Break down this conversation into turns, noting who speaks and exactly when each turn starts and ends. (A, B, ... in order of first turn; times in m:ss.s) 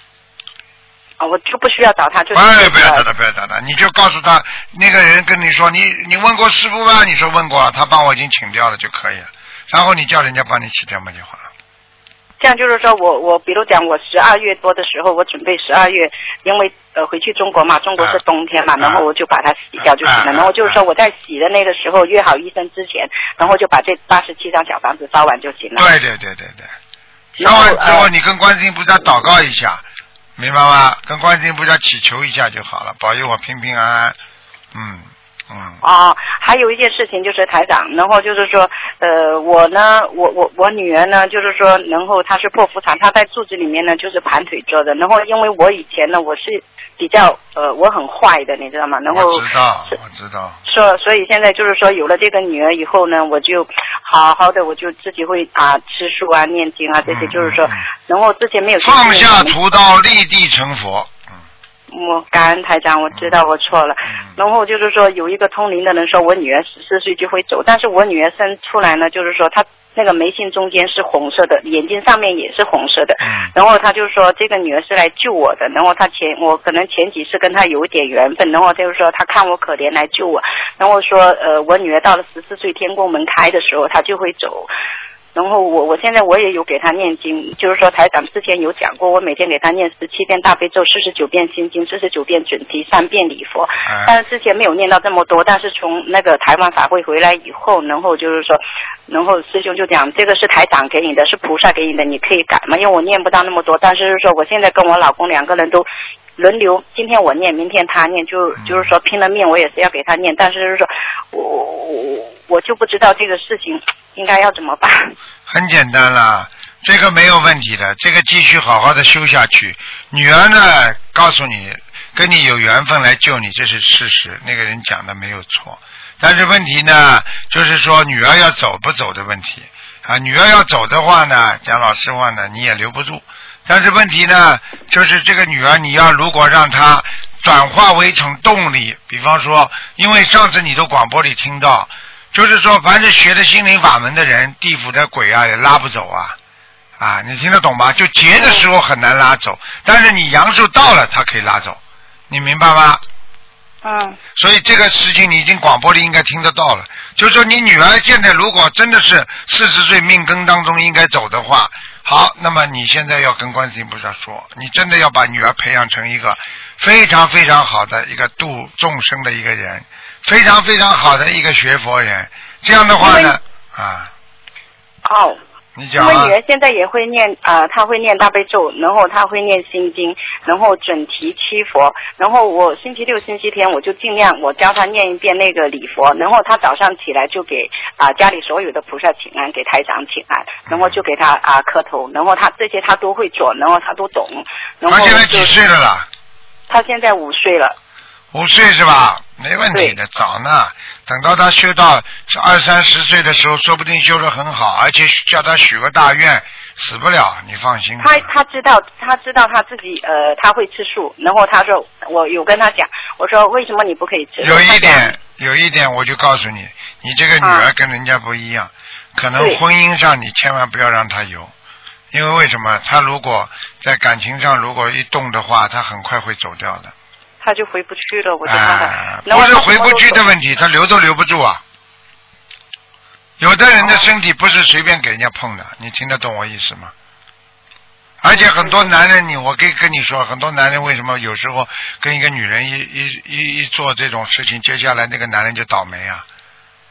0:01.2-0:03.0 A
0:02.3-0:11.5 B
0:12.4-0:25.9 A
0:20.0-0:20.8 B
0:25.8-0:26.7 B
0:27.4-0:28.1 A
0:27.4-0:29.8 B
0:30.4-0:34.2 B
0:34.7-0:35.8 B
0:35.8-0:49.5 A
0:49.1-0:50.6 B
0:50.6-0:59.6 A
0:57.1-0:57.8 B
0:58.8-1:01.2 B
1:01.9-1:24.7 A
1:13.2-1:13.5 B
1:25.3-1:45.8 A
1:33.8-1:34.1 B
1:46.4-1:55.1 A
1:48.6-1:48.9 B
1:55.5-2:26.4 B
2:27.0-2:31.8 B
2:32.3-2:33.0 B
2:33.8-2:34.2 A
2:34.4-2:54.1 B
2:53.0-2:53.4 A
2:55.0-2:55.4 A
2:55.8-2:56.3 B
2:56.0-3:15.5 A
3:10.7-3:11.0 B
3:14.8-3:16.1 B
3:16.7-3:17.8 A
3:18.3-3:28.3 B
3:28.0-3:35.1 A
3:34.4-3:41.5 B
3:37.4-3:37.7 A
3:42.1-3:46.9 B
3:47.4-3:50.2 A
3:48.4-3:51.6 B
3:53.4-3:56.9 B
3:58.2-4:06.2 B
3:58.3-3:58.8 A